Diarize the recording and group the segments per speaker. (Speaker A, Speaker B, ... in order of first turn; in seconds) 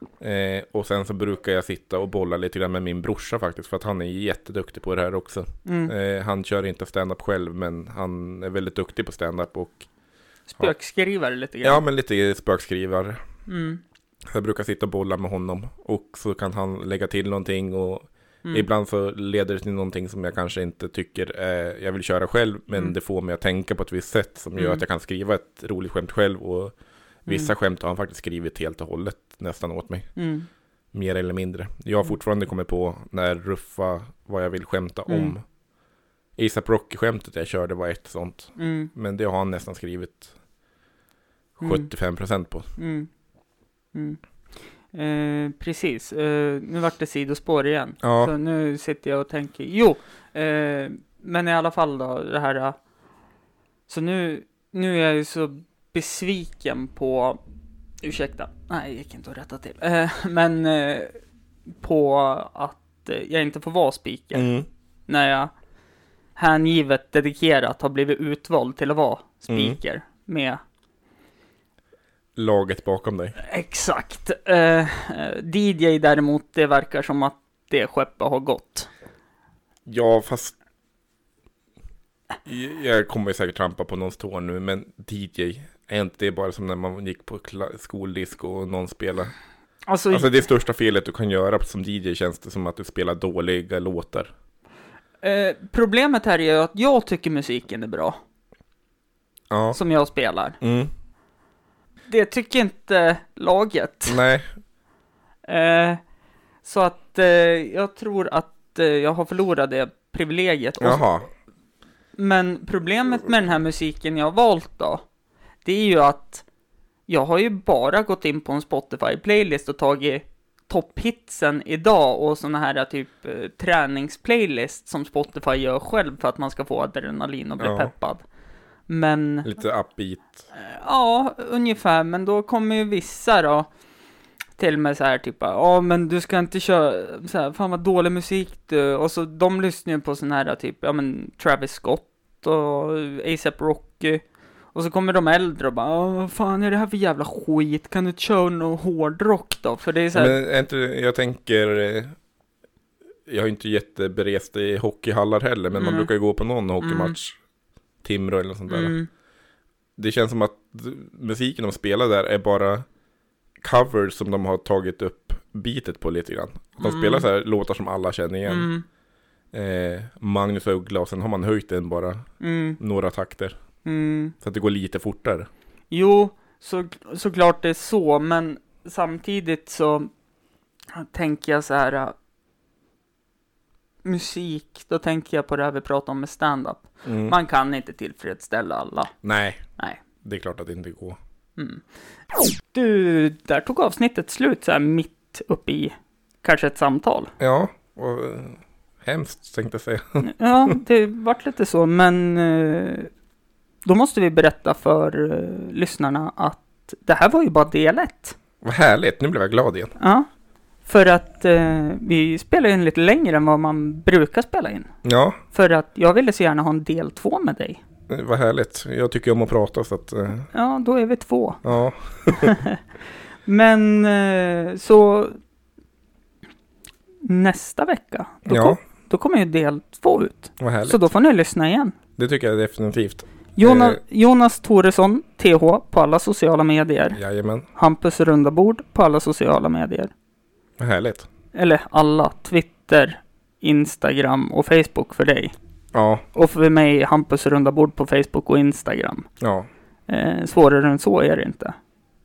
Speaker A: 0.2-9.9, 11.6-13.2, 14.3-26.7, 27.2-30.1, 30.9-35.4, 36.4-40.3, 41.6-42.7, 48.0-48.3, 64.3-64.7, 69.5-69.8, 72.3-73.4, 79.8-80.5, 82.4-89.3, 90.1-94.3, 99.5-99.8, 100.6-100.9, 104.1-104.5, 110.8-111.3, 127.6-127.9, 129.4-130.5, 150.1-152.2, 153.3-157.4, 158.0-158.9, 160.0-162.8, 163.6-168.7, 169.5-172.2, 172.8-173.6, 174.4-175.5, 187.0-187.3, 189.2-189.6, 190.2-191.2, 197.4-200.8, 208.6-209.9, 215.0-215.4, 218.1-220.5, 221.6-222.6, 228.4-228.8, 230.6-231.1, 232.2-234.0, 237.1-237.7, 240.8-241.3, 245.9-246.2, 249.4-249.7
Speaker B: 5.7-5.9, 10.5-11.8, 13.5-13.8, 24.5-24.8, 27.3-27.5, 30.1-30.5, 35.1-35.3, 38.6-38.9, 41.6-41.9, 42.8-43.1, 43.9-44.2, 44.9-52.8, 53.9-57.4, 58.0-61.2, 61.8-64.5, 65.1-65.5, 66.3-70.6, 73.4-78.9, 89.9-90.4, 95.2-98.2, 99.7-100.6, 102.1-104.2, 105.5-106.0, 106.6-111.0, 112.2-115.0, 115.6-116.4, 117.1-128.2, 128.9-129.5, 130.5-133.7, 134.6-144.2, 144.7-150.3, 155.7-156.1, 156.8-157.2, 158.7-159.1, 166.8-167.3, 168.4-168.8, 172.4-172.8, 173.8-174.3, 175.9-180.1, 180.9-182.1, 184.0-189.1, 191.6-191.8, 192.6-197.3, 200.2-203.1, 203.8-208.3, 210.0-210.3, 210.8-214.9, 215.5-217.8, 220.5-221.6, 222.3-222.8, 223.4-225.4, 227.2-231.9, 233.6-237.2, 237.8-240.1, 241.5-245.5, 246.3-249.3, 250.1-251.8